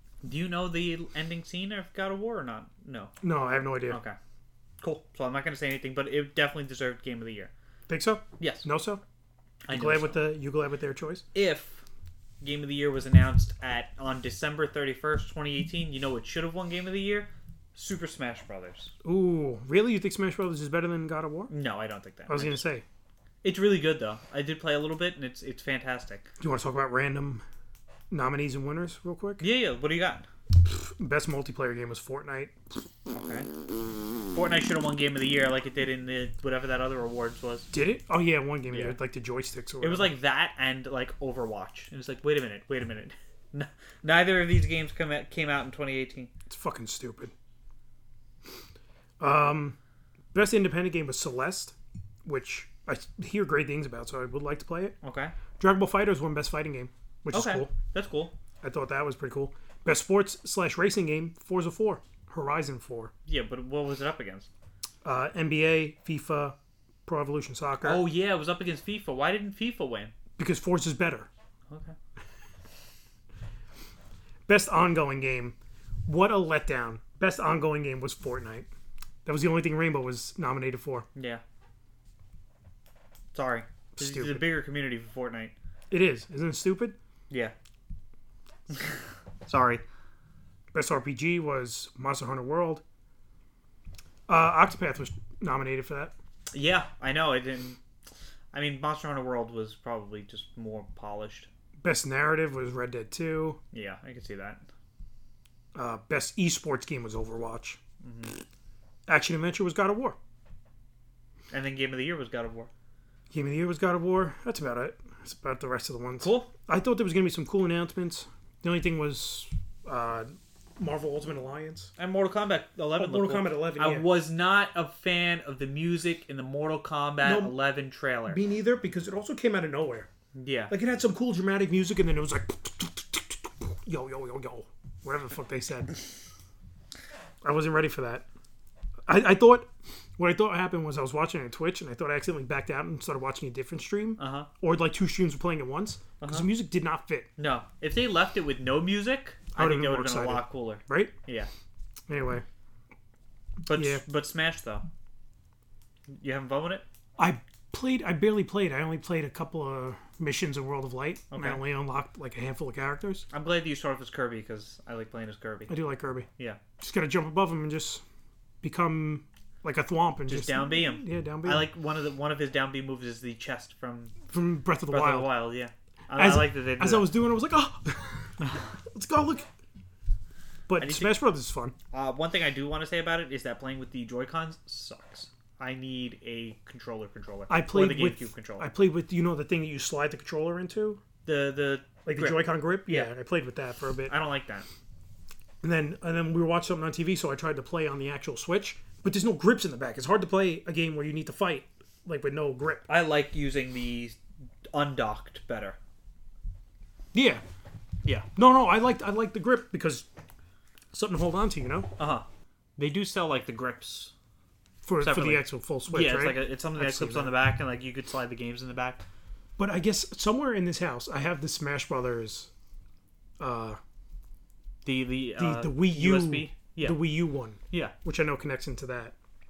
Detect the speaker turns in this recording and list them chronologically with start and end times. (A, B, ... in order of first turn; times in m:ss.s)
0:00.2-0:03.1 A
0:03.2-0:04.0 B
0:03.9-0:04.2 A
0:04.8-0:07.5 A
0:07.9-0:09.0 B
0:08.4-0:08.7 A
0:09.6-0:10.2 A
0:09.7-0:11.2 B
0:11.4-0:11.8 A
0:12.4-0:18.9 A
0:19.0-0:21.5 B
0:21.5-0:22.6 A
0:22.3-0:22.8 B
0:23.4-0:26.3 A
0:26.4-0:27.4 B
0:28.1-0:29.4 B
0:29.4-0:30.3 A
0:30.6-0:32.6 B
0:33.1-0:33.5 A
0:34.3-0:37.7 A
0:37.7-0:40.1 B
0:38.7-0:39.0 A
0:39.8-0:46.3 A
0:46.5-0:47.3 B
0:49.2-0:49.8 B
0:50.3-0:55.0 B
0:55.0-0:55.4 A
0:55.6-0:57.7 B
0:57.3-0:58.3 A
0:58.6-1:03.1 B
1:03.3-1:04.5 A
1:05.0-1:08.0 B
1:07.8-1:10.2 A
1:10.4-1:11.3 B
1:11.7-1:12.0 A
1:14.5-1:18.7 B
1:19.2-1:21.1 B
1:21.2-1:21.4 A
1:23.3-1:25.5 A
1:24.0-1:24.4 B
1:25.9-1:27.0 B
1:28.7-1:29.8 A
1:30.7-1:32.8 B
1:34.3-1:36.1 B
1:36.5-1:37.8 A
1:38.5-1:41.5 A
1:41.8-1:43.6 B
1:43.7-1:44.6 A
1:45.7-1:47.8 B
1:48.0-1:48.4 A
1:49.1-1:50.2 B
1:51.5-1:52.7 A
1:53.3-2:01.9 B
1:56.2-1:56.5 A
2:02.0-2:08.4 A
2:03.0-2:04.1 B
2:07.2-2:07.6 B
2:08.3-2:10.1 B
2:10.4-2:10.7 A
2:10.7-2:16.0 B
2:17.4-2:18.3 B
2:19.1-2:27.3 B
2:24.2-2:24.5 A
2:26.2-2:26.5 A
2:27.4-2:31.5 A
2:29.6-2:31.2 B
2:32.1-2:32.4 B
2:33.7-2:34.9 A
2:33.7-2:34.0 B
2:36.1-2:36.8 A
2:37.2-2:43.3 B
2:41.3-2:41.6 A
2:43.3-2:45.8 A
2:45.7-2:46.3 B
2:46.8-2:48.0 B
2:48.6-2:51.7 B
2:50.3-2:54.2 A
2:54.3-2:55.4 B
2:54.9-2:57.1 A
2:56.2-2:59.5 B
3:00.7-3:01.8 B
3:00.8-3:01.2 A
3:01.9-3:08.7 A
3:07.5-3:11.0 B
3:11.3-3:13.1 A
3:12.0-3:14.1 B
3:14.1-3:14.7 A
3:15.6-3:22.9 B
3:22.9-3:24.2 A
3:24.7-3:25.8 A
3:27.1-3:27.4 B
3:28.4-3:30.1 B
3:30.9-3:31.9 B
3:32.0-3:32.3 A
3:32.8-3:34.1 A
3:34.8-3:37.4 B
3:35.0-3:39.0 A
3:39.6-3:42.5 B
3:43.4-3:43.8 B
3:44.8-3:47.0 A
3:45.4-3:49.2 B